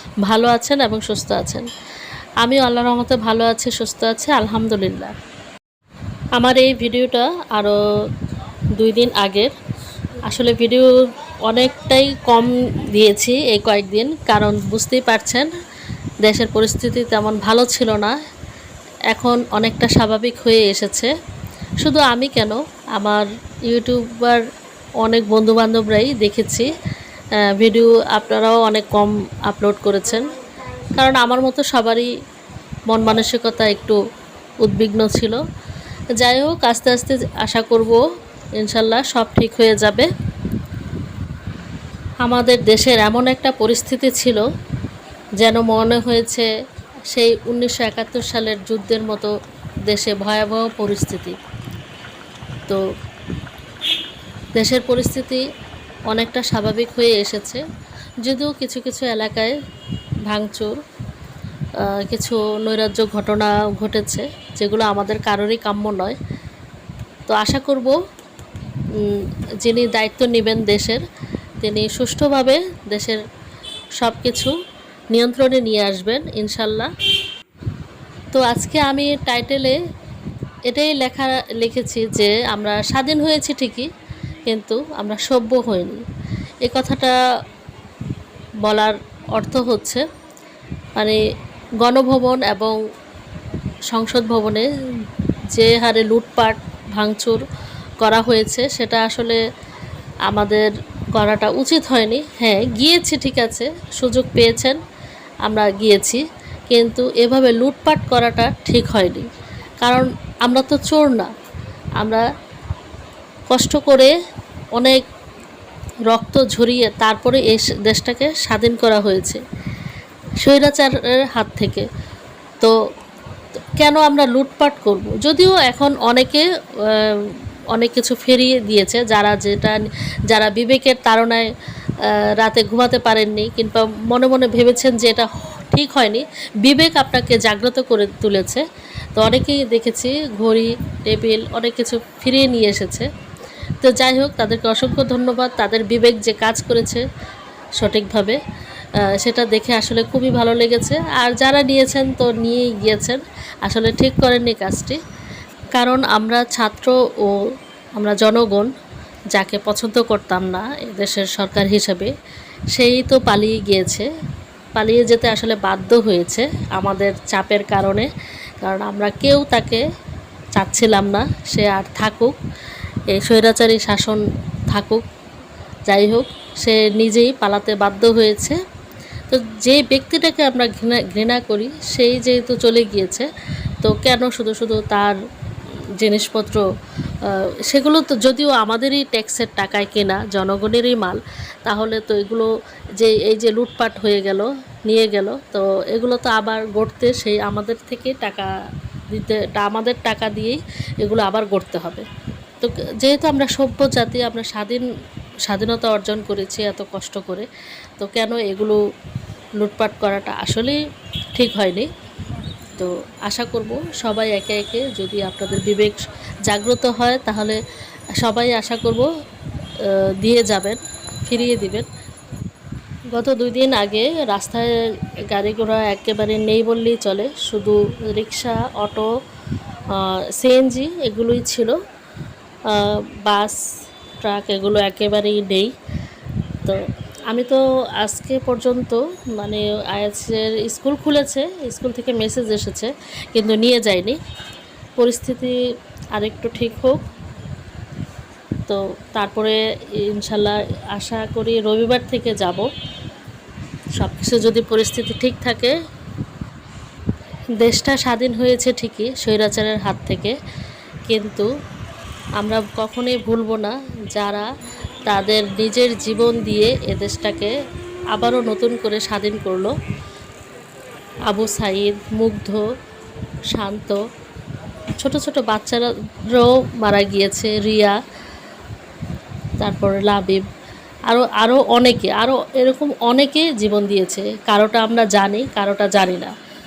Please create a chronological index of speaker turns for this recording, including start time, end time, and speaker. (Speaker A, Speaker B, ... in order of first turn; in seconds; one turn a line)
Speaker A: 0.3-1.7
Speaker A: 2.4-5.1
Speaker A: 6.4-7.8
Speaker A: 8.8-9.5
Speaker A: 10.3-10.9
Speaker A: 11.5-15.5
Speaker A: 16.2-18.1
Speaker A: 19.1-21.1
Speaker A: 21.8-24.4
Speaker A: 25.0-26.7
Speaker A: 27.4-30.4
Speaker A: 30.9-32.1
Speaker A: 32.9-34.0
Speaker A: 34.6-35.4
Speaker A: 36.2-38.0
Speaker A: 38.6-40.1
Speaker A: 42.2-44.4
Speaker A: 45.4-46.5
Speaker A: 47.1-49.3
Speaker A: 49.9-51.4
Speaker A: 54.6-55.4
Speaker A: 56.1-57.6
Speaker A: 58.2-59.6
Speaker A: 60.3-60.8
Speaker A: 61.8-66.2
Speaker A: 67.3-68.0
Speaker A: 69.0-71.0
Speaker A: 71.6-73.2
Speaker A: 74.0-74.5
Speaker A: 75.1-76.9
Speaker A: 78.3-79.8
Speaker A: 80.7-83.9
Speaker A: 84.5-85.9
Speaker A: 86.7-87.2
Speaker A: 88.6-90.0
Speaker A: 91.8-92.8
Speaker A: 93.9-94.7
Speaker A: 95.5-97.4
Speaker A: 98.0-99.4
Speaker A: 100.3-104.8
Speaker A: 105.5-109.3
Speaker A: 109.8-111.3
Speaker A: 113.5-114.1
Speaker A: 114.8-115.0
Speaker A: 116.1-119.4
Speaker A: 120.4-121.9
Speaker A: 123.8-131.5
Speaker A: 132.0-138.6
Speaker A: 139.2-143.1
Speaker A: 143.8-147.0
Speaker A: 147.8-148.4
Speaker A: 149.1-155.0
Speaker A: 155.8-157.4
Speaker A: 158.0-158.7
Speaker A: 159.3-162.1
Speaker A: 162.7-164.1
Speaker A: 164.8-168.1
Speaker A: 168.6-169.8
Speaker A: 170.6-172.3
Speaker A: 173.1-175.0
Speaker A: 175.9-178.6
Speaker A: 179.3-183.3
Speaker A: 183.8-185.2
Speaker A: 186.0-186.7
Speaker A: 187.2-198.5
Speaker A: 199.1-202.1
Speaker A: 202.6-204.8
Speaker A: 205.5-207.5
Speaker A: 208.0-208.8
Speaker A: 209.6-210.8
Speaker A: 211.4-211.9
Speaker A: 212.8-217.6
Speaker A: 218.2-219.1
Speaker A: 219.8-221.9
Speaker A: 223.1-224.7
Speaker A: 225.3-229.1
Speaker A: 229.9-231.7
Speaker A: 232.7-233.6
Speaker A: 234.2-235.7
Speaker A: 236.6-244.2
Speaker A: 245.0-245.6
Speaker A: 246.2-247.0
Speaker A: 248.7-252.7
Speaker A: 254.0-255.8
Speaker A: 257.6-260.4
Speaker A: 261.1-261.5
Speaker A: 262.4-264.5
Speaker A: 265.1-267.5
Speaker A: 268.1-269.7
Speaker A: 271.3-272.6
Speaker A: 273.5-274.0
Speaker A: 275.0-278.0
Speaker A: 279.6-280.4
Speaker A: 281.1-286.3